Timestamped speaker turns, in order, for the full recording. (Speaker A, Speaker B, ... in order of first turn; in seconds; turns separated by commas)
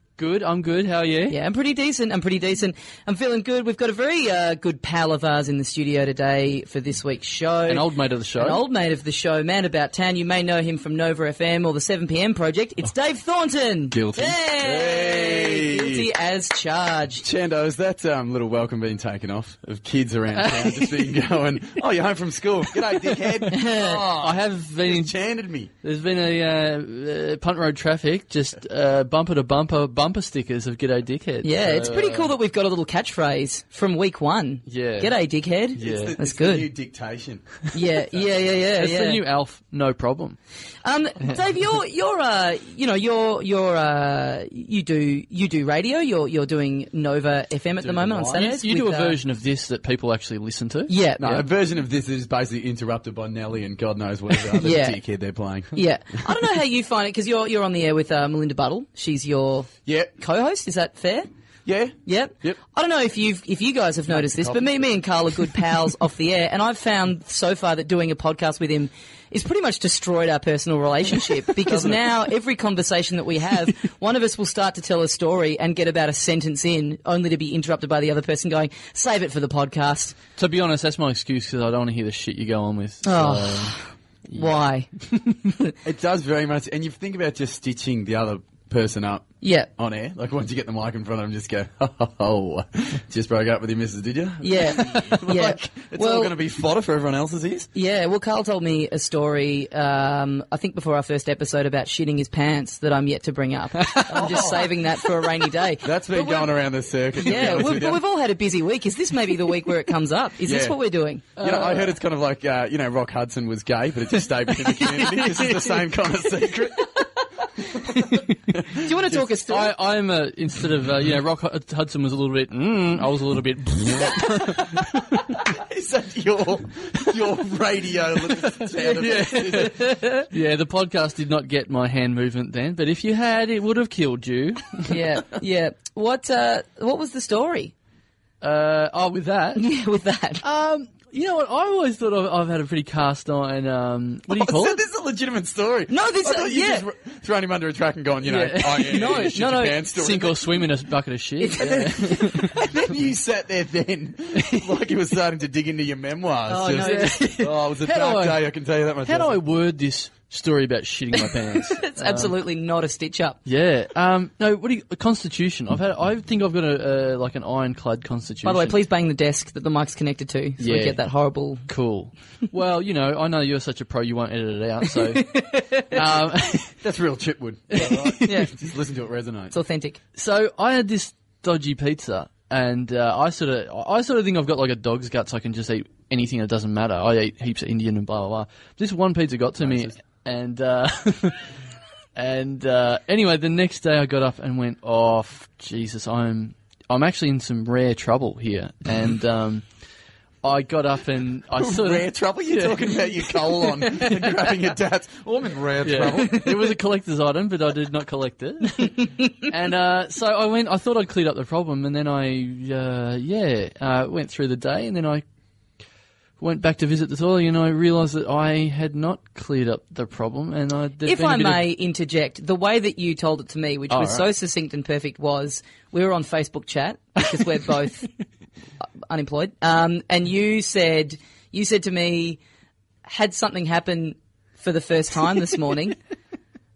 Speaker A: 0.2-1.4, Speaker B: 1.3-7.9, Speaker A: 7.7-8.6, Speaker B: 8.4-17.2, Speaker C: 13.9-16.1, Speaker C: 17.2-25.7, Speaker A: 20.3-21.1, Speaker A: 23.3-23.5, Speaker B: 23.5-24.0, Speaker A: 24.1-25.2, Speaker A: 25.8-32.3, Speaker B: 31.4-36.7, Speaker A: 34.7-35.1, Speaker A: 35.8-36.1, Speaker C: 35.8-37.6, Speaker B: 37.7-39.2, Speaker A: 38.8-40.4, Speaker B: 40.8-49.2, Speaker C: 47.8-48.4, Speaker A: 48.4-50.9, Speaker B: 50.9-51.4, Speaker C: 51.2-56.2, Speaker B: 54.5-55.0, Speaker B: 55.7-61.3, Speaker C: 59.9-60.1, Speaker C: 61.7-62.6, Speaker B: 62.0-80.2, Speaker C: 64.1-64.8, Speaker C: 71.7-72.1, Speaker A: 80.4-83.8, Speaker B: 83.0-84.9, Speaker A: 85.1-85.4, Speaker C: 85.8-97.7, Speaker B: 89.4-89.7, Speaker B: 94.4-96.3, Speaker B: 97.8-106.5, Speaker A: 103.8-104.5, Speaker C: 104.1-104.8, Speaker C: 105.8-108.0, Speaker B: 107.2-111.3, Speaker C: 110.4-110.8, Speaker A: 111.4-112.0, Speaker C: 111.4-116.9, Speaker A: 114.9-115.6, Speaker B: 116.8-119.7, Speaker C: 118.5-119.1, Speaker A: 119.1-125.2, Speaker C: 125.3-129.8, Speaker A: 128.3-135.0, Speaker B: 129.6-130.2, Speaker B: 134.8-137.7, Speaker A: 138.4-139.6, Speaker B: 139.6-140.4, Speaker A: 140.4-144.8, Speaker C: 144.3-150.5, Speaker B: 145.9-146.8, Speaker A: 148.3-149.3, Speaker B: 148.8-149.9, Speaker A: 149.9-152.6, Speaker B: 151.4-152.6, Speaker C: 152.3-159.4, Speaker A: 154.3-154.8, Speaker B: 156.5-157.4, Speaker A: 156.7-158.4, Speaker A: 159.0-162.3, Speaker B: 161.2-163.4, Speaker A: 163.4-168.8, Speaker B: 168.4-171.7, Speaker A: 170.6-171.0, Speaker A: 171.7-176.8, Speaker B: 174.8-176.1, Speaker C: 176.8-179.5, Speaker B: 177.8-178.5, Speaker A: 177.8-178.4, Speaker B: 179.5-180.0, Speaker A: 180.2-191.4, Speaker C: 189.6-189.9, Speaker A: 192.2-199.7, Speaker A: 200.4-203.4, Speaker C: 201.6-206.5, Speaker A: 205.8-215.2, Speaker A: 216.4-221.7, Speaker B: 221.0-228.1, Speaker A: 223.9-224.2, Speaker B: 229.1-232.4, Speaker B: 233.1-236.0